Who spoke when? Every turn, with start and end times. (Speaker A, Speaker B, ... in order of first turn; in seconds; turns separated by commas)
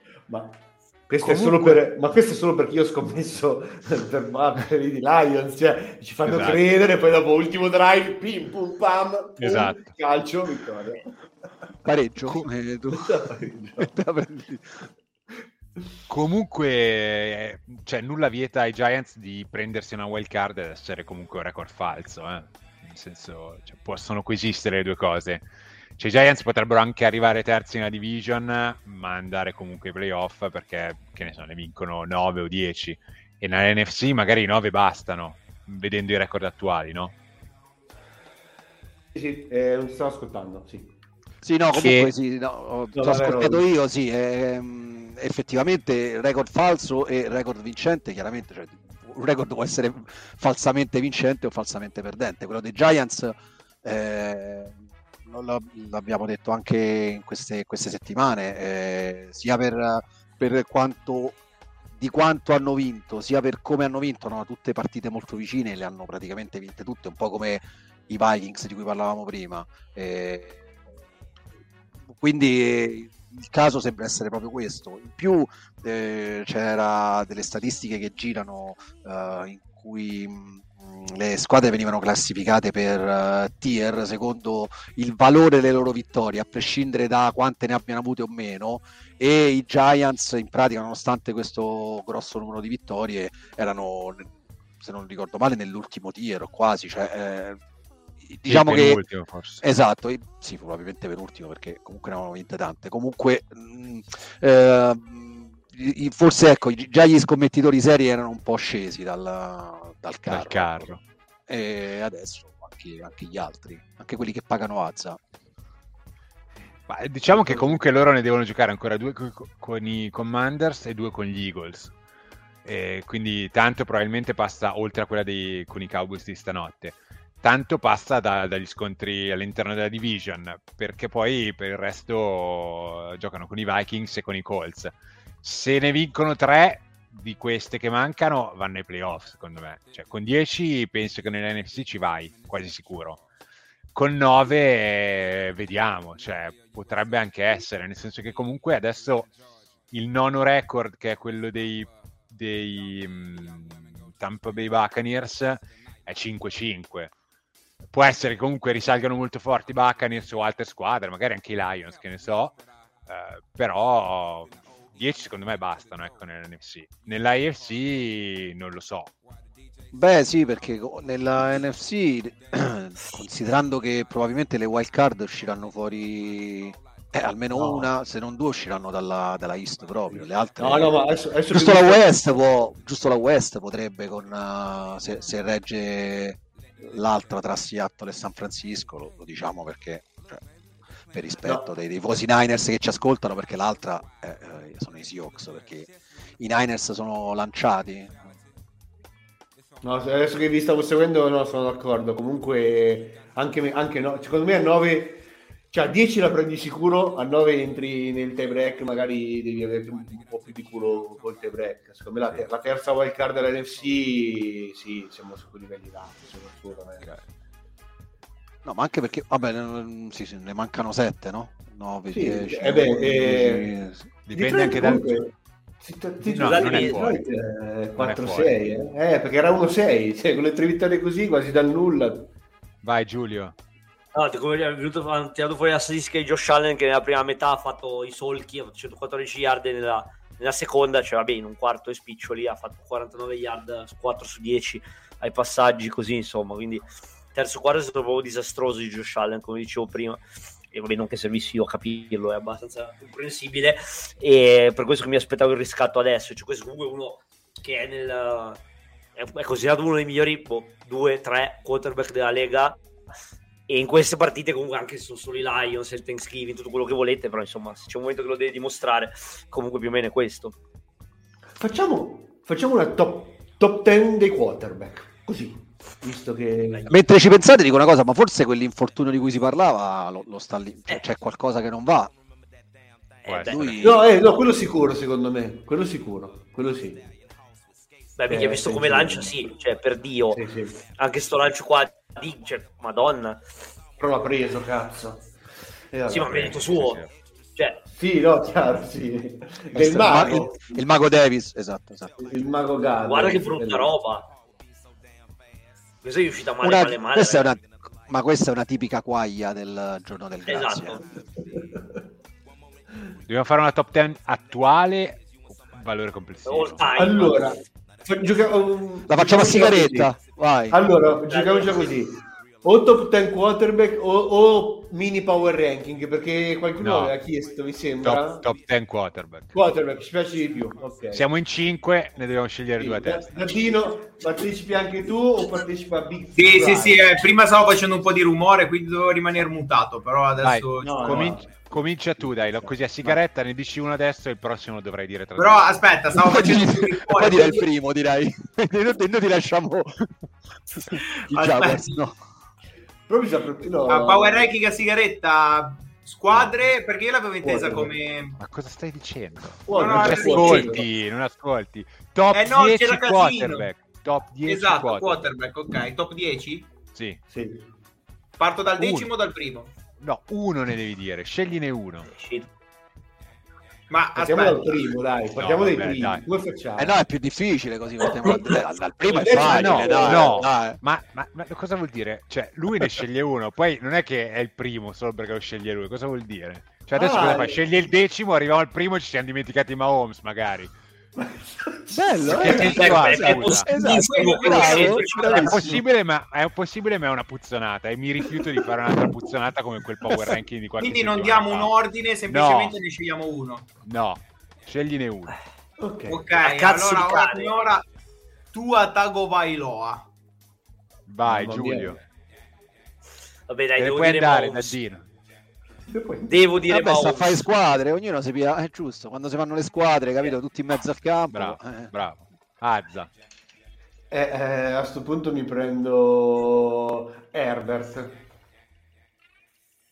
Speaker A: 0.3-0.6, Speaker A: 1.1-11.1, Speaker B: 1.2-1.8, Speaker B: 6.3-6.6, Speaker B: 9.4-9.9, Speaker C: 11.8-13.2, Speaker A: 12.9-13.9, Speaker C: 13.8-14.9, Speaker B: 16.1-37.1, Speaker A: 39.1-40.9, Speaker C: 41.4-61.4, Speaker B: 41.7-42.1, Speaker A: 43.0-43.6, Speaker C: 62.0-70.6, Speaker C: 72.1-94.3, Speaker C: 94.8-97.6, Speaker C: 98.2-99.0, Speaker B: 98.5-99.6, Speaker C: 99.6-110.9, Speaker B: 110.3-111.0, Speaker C: 111.5-115.2, Speaker B: 116.9-121.9, Speaker A: 117.3-117.8, Speaker B: 122.7-143.2, Speaker B: 143.9-149.3, Speaker B: 149.9-157.1, Speaker B: 157.9-169.1, Speaker C: 169.9-190.4, Speaker A: 177.5-177.9, Speaker A: 180.1-182.0, Speaker C: 191.1-198.3, Speaker A: 199.8-217.1, Speaker C: 218.6-224.1, Speaker A: 222.1-223.7, Speaker B: 224.3-225.2, Speaker A: 224.3-225.3, Speaker A: 225.8-232.3, Speaker B: 226.2-227.2, Speaker D: 226.4-227.0, Speaker B: 228.0-228.6, Speaker B: 232.8-233.5, Speaker D: 234.1-258.6, Speaker D: 259.2-262.8, Speaker D: 263.7-270.6, Speaker A: 271.6-276.9, Speaker C: 276.9-282.1, Speaker D: 283.2-283.8, Speaker B: 283.3-284.1, Speaker C: 283.5-284.1, Speaker A: 283.8-287.1, Speaker D: 288.2-290.4, Speaker A: 288.3-289.5, Speaker A: 290.3-290.8, Speaker D: 291.0-293.4, Speaker A: 294.0-295.3, Speaker A: 295.9-296.7, Speaker D: 296.1-297.0, Speaker B: 296.3-297.1, Speaker A: 297.9-300.8, Speaker C: 299.7-302.3, Speaker A: 302.2-303.9, Speaker D: 303.0-304.3, Speaker D: 306.0-307.5, Speaker C: 306.6-311.1, Speaker D: 310.5-311.0, Speaker B: 313.3-317.3, Speaker D: 316.4-317.6, Speaker A: 317.0-320.2, Speaker C: 319.1-320.8, Speaker A: 320.7-328.4, Speaker D: 321.3-321.9, Speaker B: 326.8-327.1, Speaker B: 328.0-329.5, Speaker A: 329.5-331.2, Speaker B: 331.1-333.4, Speaker A: 332.8-337.1, Speaker E: 336.4-341.1, Speaker B: 340.4-345.9, Speaker A: 340.8-341.5, Speaker E: 345.4-347.6, Speaker C: 346.1-350.1, Speaker C: 350.9-352.2, Speaker E: 351.3-352.0, Speaker A: 353.1-354.5, Speaker E: 353.9-358.4, Speaker A: 357.4-357.9, Speaker B: 358.4-365.2, Speaker A: 359.7-360.9, Speaker E: 359.7-360.8, Speaker E: 362.3-363.7, Speaker E: 364.4-366.7, Speaker B: 366.9-367.2, Speaker A: 367.3-367.7, Speaker E: 368.4-369.7, Speaker B: 368.7-369.1, Speaker B: 370.0-372.1, Speaker D: 372.1-372.5, Speaker E: 373.9-374.8, Speaker A: 374.1-377.0, Speaker B: 375.3-376.3, Speaker C: 376.8-380.8, Speaker A: 379.1-380.5, Speaker B: 379.5-390.8, Speaker A: 387.0-387.6, Speaker A: 391.2-392.8, Speaker C: 391.9-395.1, Speaker B: 392.2-393.7, Speaker D: 392.5-395.6, Speaker E: 393.8-395.3, Speaker A: 395.1-395.8, Speaker B: 395.3-401.7, Speaker E: 400.8-403.7, Speaker B: 402.3-402.8, Speaker B: 403.8-405.4, Speaker A: 405.8-406.3, Speaker E: 406.1-407.8, Speaker D: 406.4-407.5, Speaker E: 408.5-410.1, Speaker B: 411.1-412.0, Speaker A: 411.2-412.0, Speaker D: 413.5-414.8, Speaker B: 413.8-415.1, Speaker A: 415.9-416.4, Speaker D: 416.3-417.4, Speaker C: 416.7-421.9, Speaker B: 421.3-423.1, Speaker A: 424.1-428.2